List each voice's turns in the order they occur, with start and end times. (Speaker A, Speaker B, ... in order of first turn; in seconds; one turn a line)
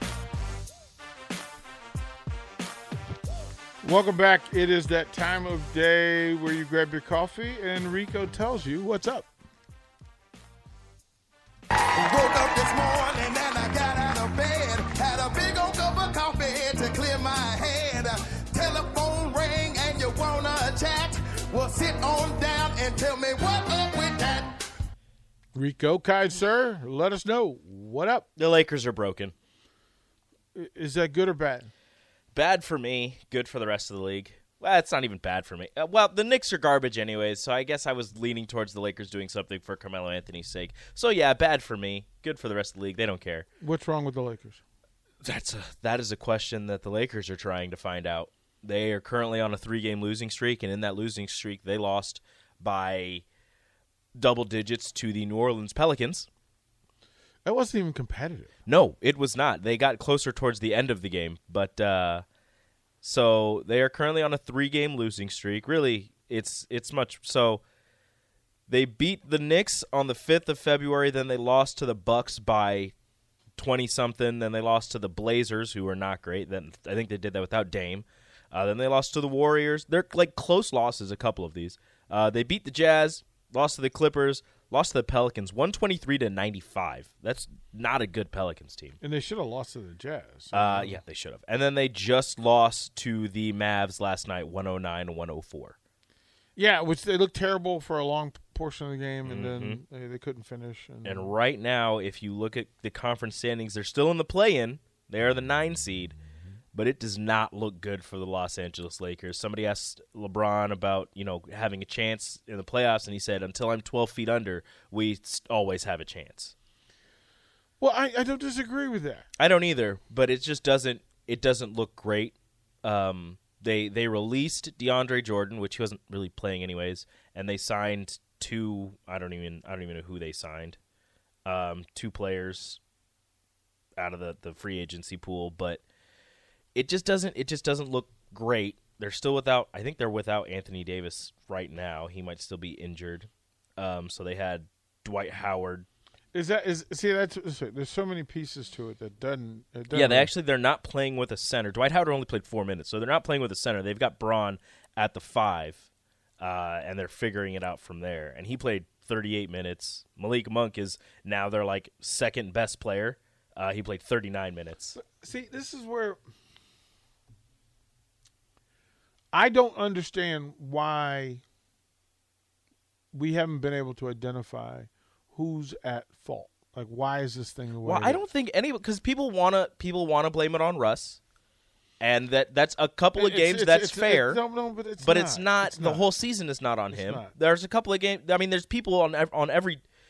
Speaker A: 3.8-9.3
Speaker B: 12.0-24.7
Speaker A: 25.5-28.3
Speaker C: 28.4-29.3
Speaker A: 30.6-31.7
Speaker C: 32.3-43.5
Speaker A: 43.6-44.6
Speaker C: 45.2-53.2
Speaker C: 54.2-56.3
Speaker A: 57.5-58.5
Speaker C: 58.7-62.2
Speaker C: 63.0-67.6
Speaker C: 68.7-72.9
Speaker C: 73.6-89.0
Speaker A: 89.0-91.0
Speaker C: 90.5-95.8
Speaker A: 96.6-101.3
Speaker C: 99.2-99.8
Speaker C: 101.0-106.2
Speaker C: 106.7-116.5
Speaker A: 117.8-119.3
Speaker C: 119.4-130.8
Speaker C: 131.5-132.8
Speaker C: 134.0-135.8
Speaker C: 136.8-145.9
Speaker A: 146.3-150.3
Speaker C: 149.9-155.9
Speaker C: 156.4-165.0
Speaker A: 165.0-166.2
Speaker A: 169.3-171.4
Speaker A: 173.1-178.2
Speaker C: 177.8-181.2
Speaker C: 182.0-184.4
Speaker A: 183.1-186.1
Speaker C: 185.0-189.8
Speaker A: 186.9-187.3